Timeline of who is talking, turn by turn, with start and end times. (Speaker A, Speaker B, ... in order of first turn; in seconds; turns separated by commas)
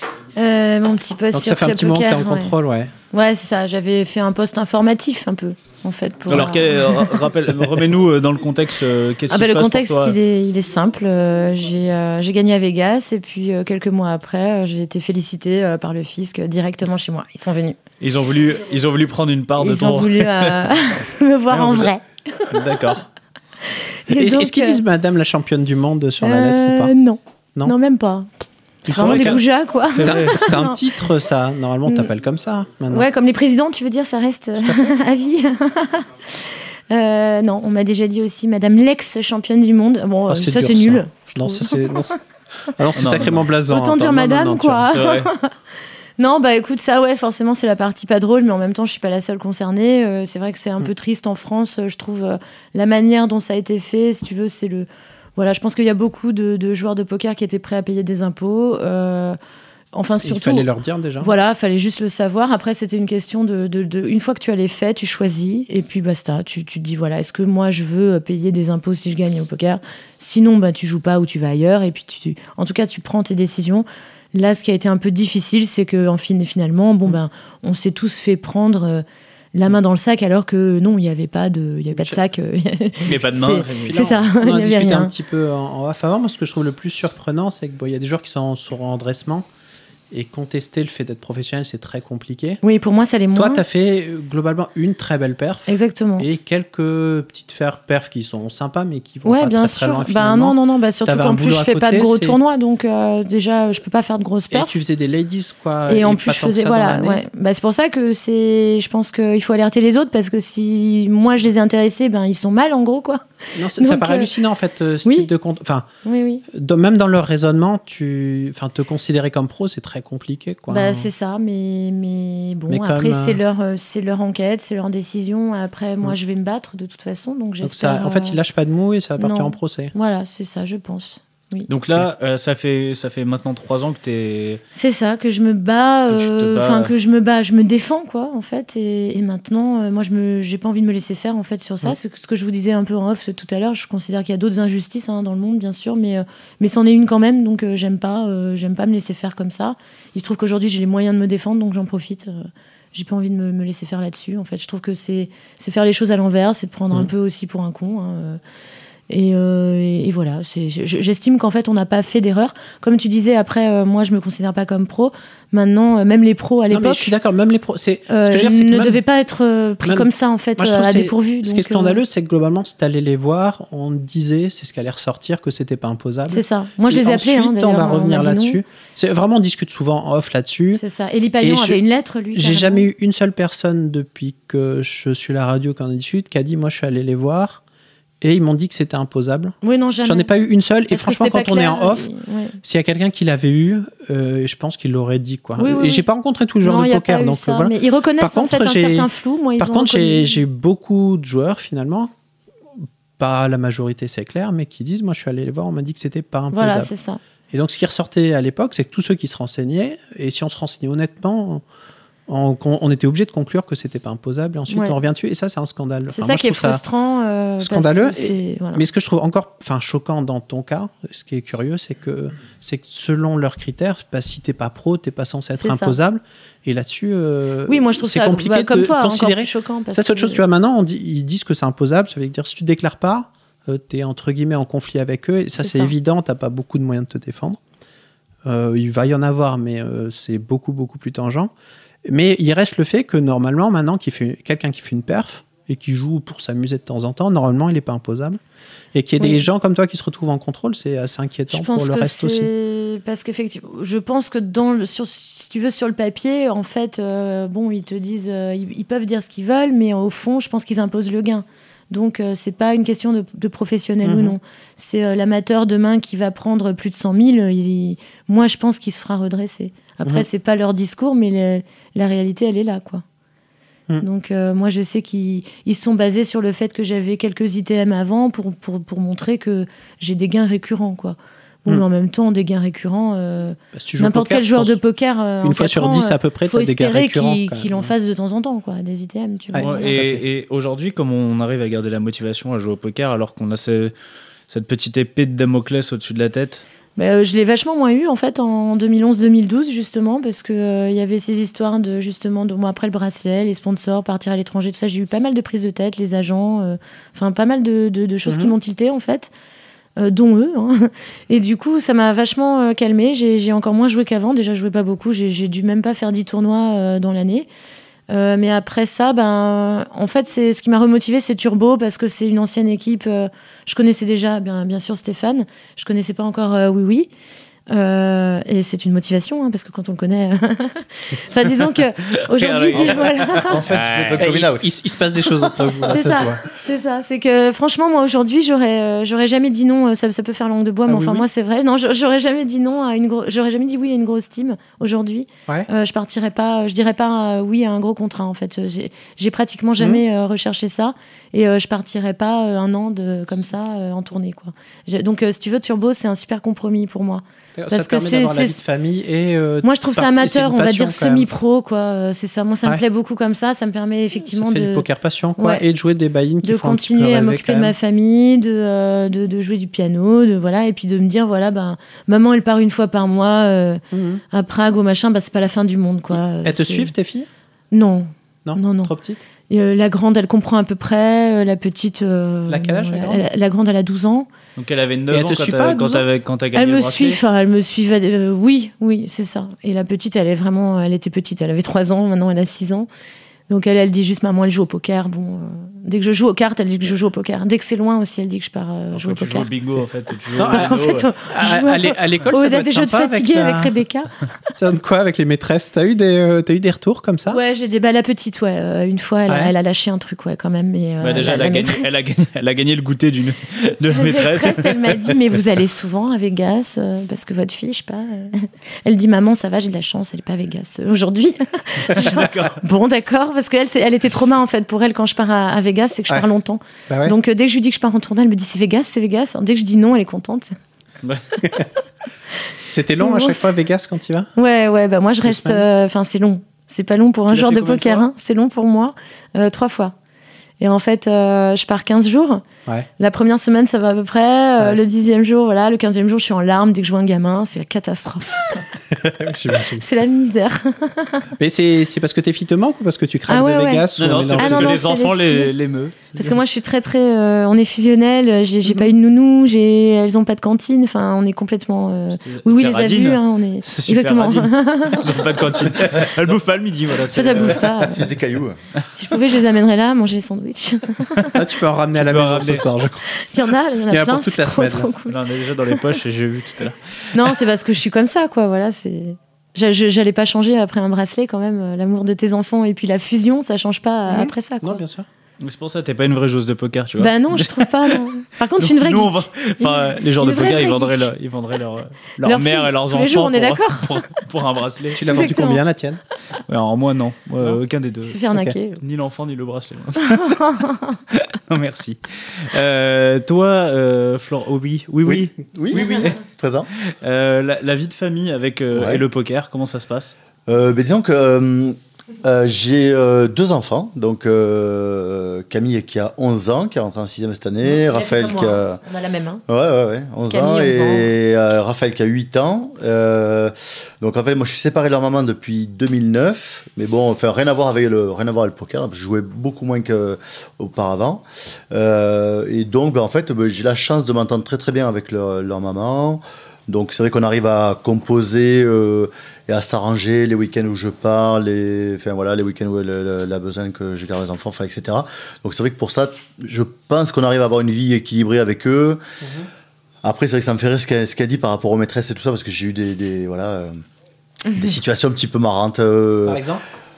Speaker A: 0.3-2.5, Speaker B: 1.3-2.9, Speaker A: 3.1-7.2, Speaker C: 6.3-10.2, Speaker A: 9.3-17.8, Speaker C: 18.0-20.7, Speaker A: 19.6-22.6, Speaker C: 21.5-21.9, Speaker C: 22.5-23.1, Speaker A: 24.1-24.8, Speaker B: 24.1-26.9, Speaker A: 26.2-28.3, Speaker A: 28.8-30.8, Speaker B: 28.8-33.1, Speaker C: 28.9-30.5, Speaker A: 32.9-42.1, Speaker B: 40.3-42.1, Speaker B: 42.7-44.9, Speaker C: 42.9-43.5, Speaker A: 43.6-45.5, Speaker C: 44.9-45.3, Speaker A: 46.2-59.4, Speaker A: 59.9-79.0, Speaker B: 60.2-61.3, Speaker A: 79.5-85.1, Speaker B: 81.9-82.2, Speaker C: 83.0-84.1, Speaker B: 83.5-89.5, Speaker B: 90.1-92.6, Speaker A: 92.6-93.6, Speaker B: 93.3-102.4, Speaker A: 95.7-96.3, Speaker A: 99.2-104.8, Speaker B: 104.5-107.2, Speaker A: 105.9-113.2, Speaker B: 113.5-115.9, Speaker A: 113.8-114.3, Speaker A: 115.0-115.3, Speaker A: 116.0-116.4, Speaker B: 116.5-121.1, Speaker A: 120.7-128.4, Speaker B: 122.7-123.4, Speaker B: 127.6-129.9, Speaker A: 129.2-131.7, Speaker C: 131.7-134.6, Speaker A: 134.7-158.4, Speaker C: 136.1-136.9, Speaker A: 159.1-167.1, Speaker B: 166.7-169.0, Speaker A: 168.1-172.0, Speaker B: 169.8-180.8, Speaker A: 176.3-178.6, Speaker A: 180.7-182.9, Speaker B: 181.4-181.8, Speaker B: 182.3-187.6, Speaker B: 188.2-192.1, Speaker A: 189.6-190.3, Speaker A: 190.9-192.6, Speaker B: 192.6-202.1, Speaker A: 195.6-196.1, Speaker A: 196.6-200.4, Speaker B: 202.8-206.9, Speaker A: 206.5-207.2, Speaker B: 207.5-211.6, Speaker B: 212.3-216.8, Speaker A: 214.7-215.0, Speaker A: 216.1-218.8, Speaker B: 217.6-237.6, Speaker A: 225.6-226.0, Speaker A: 227.7-230.4, Speaker A: 235.6-235.9, Speaker B: 238.4-241.5, Speaker B: 242.1-248.4, Speaker B: 248.9-252.5, Speaker A: 249.2-249.4, Speaker A: 251.5-273.0, Speaker B: 264.0-264.4, Speaker A: 274.0-290.0, Speaker B: 283.7-284.8, Speaker B: 285.4-287.9, Speaker B: 289.5-290.2, Speaker C: 289.6-293.9, Speaker C: 294.5-296.6, Speaker A: 297.0-309.3, Speaker B: 308.2-308.6, Speaker A: 310.0-317.5, Speaker A: 318.1-327.1, Speaker A: 327.7-333.6, Speaker C: 332.3-334.2, Speaker D: 333.3-335.3, Speaker B: 334.2-336.4, Speaker A: 335.9-358.6, Speaker B: 340.9-341.2, Speaker B: 357.6-361.3, Speaker A: 359.6-364.9, Speaker B: 364.2-367.7, Speaker A: 365.4-365.6, Speaker A: 366.4-376.9, Speaker B: 373.9-374.2, Speaker B: 376.4-377.3, Speaker A: 377.7-378.9, Speaker B: 378.4-379.2, Speaker A: 379.5-384.3, Speaker B: 382.5-383.3, Speaker C: 384.6-387.2, Speaker B: 385.1-386.0, Speaker A: 386.5-392.9, Speaker A: 393.5-399.5, Speaker C: 398.9-401.1, Speaker B: 400.4-403.7, Speaker A: 400.4-404.1, Speaker B: 404.5-407.4, Speaker A: 407.3-411.9, Speaker B: 409.3-409.5, Speaker C: 411.0-415.0, Speaker A: 413.9-430.5, Speaker C: 421.9-422.6, Speaker B: 426.9-427.1, Speaker B: 432.7-434.3, Speaker A: 433.0-433.5, Speaker A: 434.4-439.9, Speaker B: 435.2-435.6, Speaker C: 437.3-438.1, Speaker A: 440.6-442.4, Speaker A: 443.0-448.6, Speaker B: 444.6-444.8, Speaker B: 448.9-449.8, Speaker A: 449.8-451.3, Speaker B: 451.4-454.8, Speaker A: 453.3-455.5, Speaker C: 454.0-456.0, Speaker A: 456.1-465.1, Speaker C: 462.2-467.7, Speaker A: 467.1-468.0, Speaker D: 467.8-468.6, Speaker A: 468.9-471.4, Speaker B: 471.3-473.0, Speaker C: 471.9-472.7, Speaker A: 473.1-475.2, Speaker B: 473.9-474.9, Speaker C: 475.1-476.8, Speaker A: 477.1-484.8, Speaker B: 484.1-485.1, Speaker C: 485.4-488.0, Speaker A: 487.0-491.1, Speaker C: 488.6-495.3, Speaker A: 492.2-494.0, Speaker B: 494.9-496.0, Speaker A: 495.1-495.6, Speaker C: 496.5-498.2, Speaker A: 498.0-498.8, Speaker C: 498.8-506.2, Speaker A: 500.1-501.0, Speaker D: 505.0-506.7, Speaker B: 505.7-506.0, Speaker C: 506.8-510.1, Speaker D: 508.7-509.1, Speaker D: 510.5-518.8, Speaker A: 517.6-519.4, Speaker D: 519.5-549.0, Speaker A: 520.3-521.1, Speaker B: 549.2-549.5, Speaker D: 550.0-553.8, Speaker D: 554.5-556.4, Speaker B: 556.3-556.6